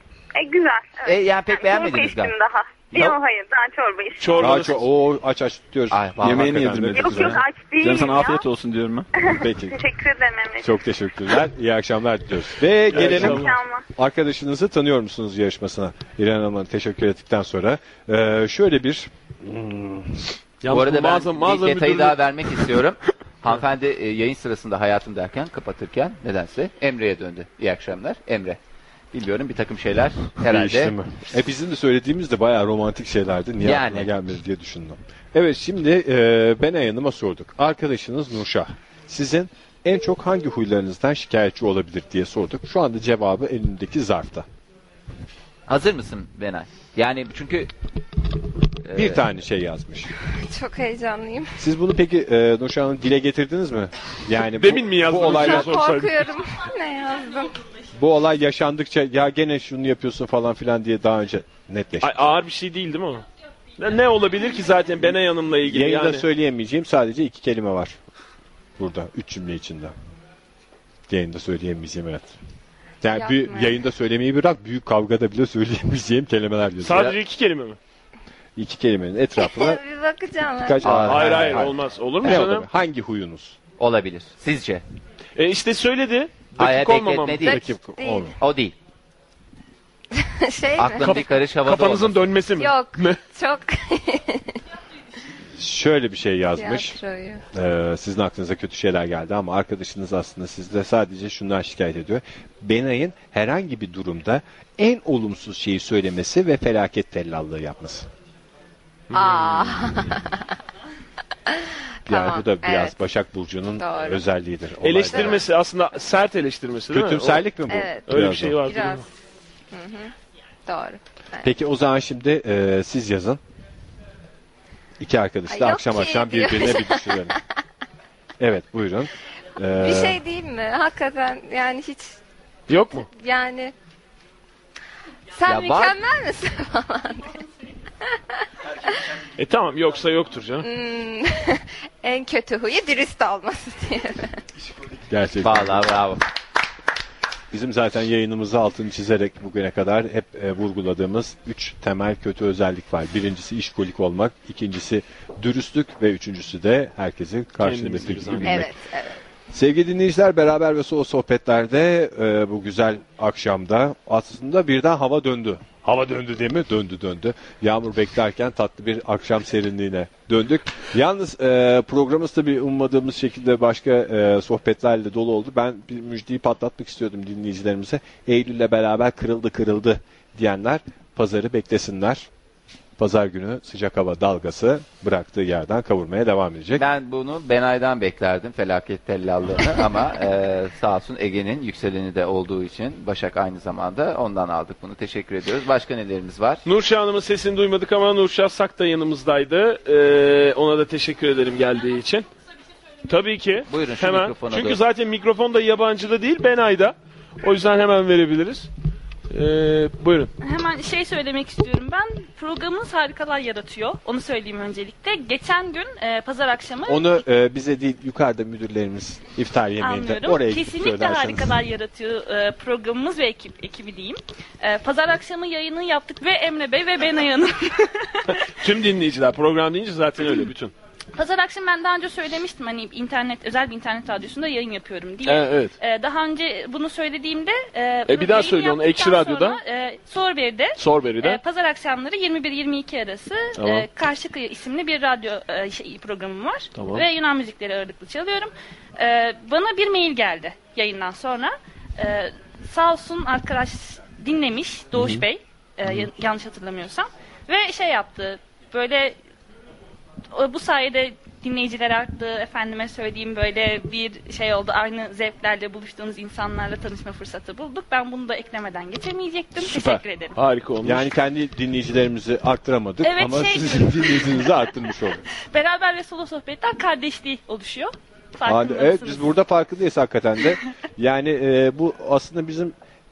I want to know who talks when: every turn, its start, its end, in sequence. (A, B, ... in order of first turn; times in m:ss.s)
0:00.3-0:04.6 A
0:01.0-0:02.3 B
0:04.2-0:04.8 C
0:04.4-0:07.4 D
0:05.9-0:06.7 B
0:06.2-0:09.1 E
0:06.9-0:08.4 A
0:09.2-0:10.7 A
0:09.2-0:09.8 D
0:10.6-0:20.3 D
0:12.9-0:13.5 C
0:13.0-0:13.4 E
0:13.2-0:13.8 A
0:20.6-0:22.2 C
0:20.7-0:28.6 B
0:29.1-0:30.9 B
0:30.4-0:44.4 D
0:33.6-0:34.1 B
0:45.7-0:47.7 B
0:48.8-0:49.2 B
0:48.9-0:50.1 D
0:50.3-0:51.6 F
0:51.6-0:55.9 D
0:54.5-0:56.3 C
0:55.3-0:57.6 F
0:57.9-1:02.3 D
1:02.0-1:03.2 C
1:03.8-1:06.2 C
1:05.6-1:08.0 D
1:08.8-1:09.9 D
1:11.1-1:12.4 D
1:13.0-1:17.1 D
1:13.1-1:13.8 F
1:16.8-1:17.8 C
1:18.6-1:19.8 D
1:19.4-1:20.9 F
1:20.6-1:23.6 D
1:20.8-1:21.5 B
1:21.0-1:22.7 C
1:23.8-1:24.8 B
1:25.4-1:27.5 C
1:26.6-1:27.6 B
1:27.4-1:28.3 D
1:28.0-1:28.3 F
1:28.4-1:28.8 B
1:30.2-1:31.2 F
1:30.8-1:32.3 B
1:31.0-1:33.2 C
1:32.6-1:34.6 F
1:35.6-1:37.0 D
1:36.6-1:37.4 F
1:37.5-1:48.1 D
1:49.1-1:49.4 C
1:49.1-1:50.4 F
1:49.5-1:50.2 D
1:51.5-1:52.9 F
1:52.1-1:55.4 D
1:53.8-1:54.2 F
1:54.8-1:57.4 C
1:55.1-1:55.4 F
1:56.9-1:58.7 D
1:57.7-1:59.0 F
1:58.1-1:59.1 C
1:59.7-2:00.1 F
2:00.6-2:01.5 F
2:01.4-2:03.4 D
2:05.0-2:07.4 D
2:05.5-2:07.4 F
2:08.4-2:10.2 D
2:09.8-2:12.2 F
2:12.7-2:13.1 C
2:12.9-2:13.7 F
2:15.3-2:17.4 F
2:15.4-2:16.0 B
2:19.4-2:20.7 C
2:20.6-2:24.3 F
2:25.1-2:26.0 D
2:25.4-2:26.2 B
2:27.5-2:38.7 D
2:37.6-2:38.7 C
2:38.4-2:39.2 F
2:39.5-3:02.3 D
3:03.0-3:06.8 D
3:06.8-3:16.6 B
3:16.6-3:22.3 C
3:23.1-3:28.7 C
3:23.7-3:24.8 B
3:29.3-3:30.3 C
3:30.4-3:37.2 G
3:36.9-3:41.5 D
3:39.8-3:48.4 G
3:48.4-3:50.7 C
3:51.1-4:19.2 G
3:55.2-3:55.7 C
3:58.1-3:59.6 C
4:00.8-4:01.4 C
4:03.6-4:03.9 C
4:06.8-4:07.0 C
4:20.3-4:30.4 G
4:29.6-4:31.1 C
4:30.8-4:35.2 D
4:33.0-4:34.5 G
4:35.4-4:39.3 G
4:38.4-4:42.7 D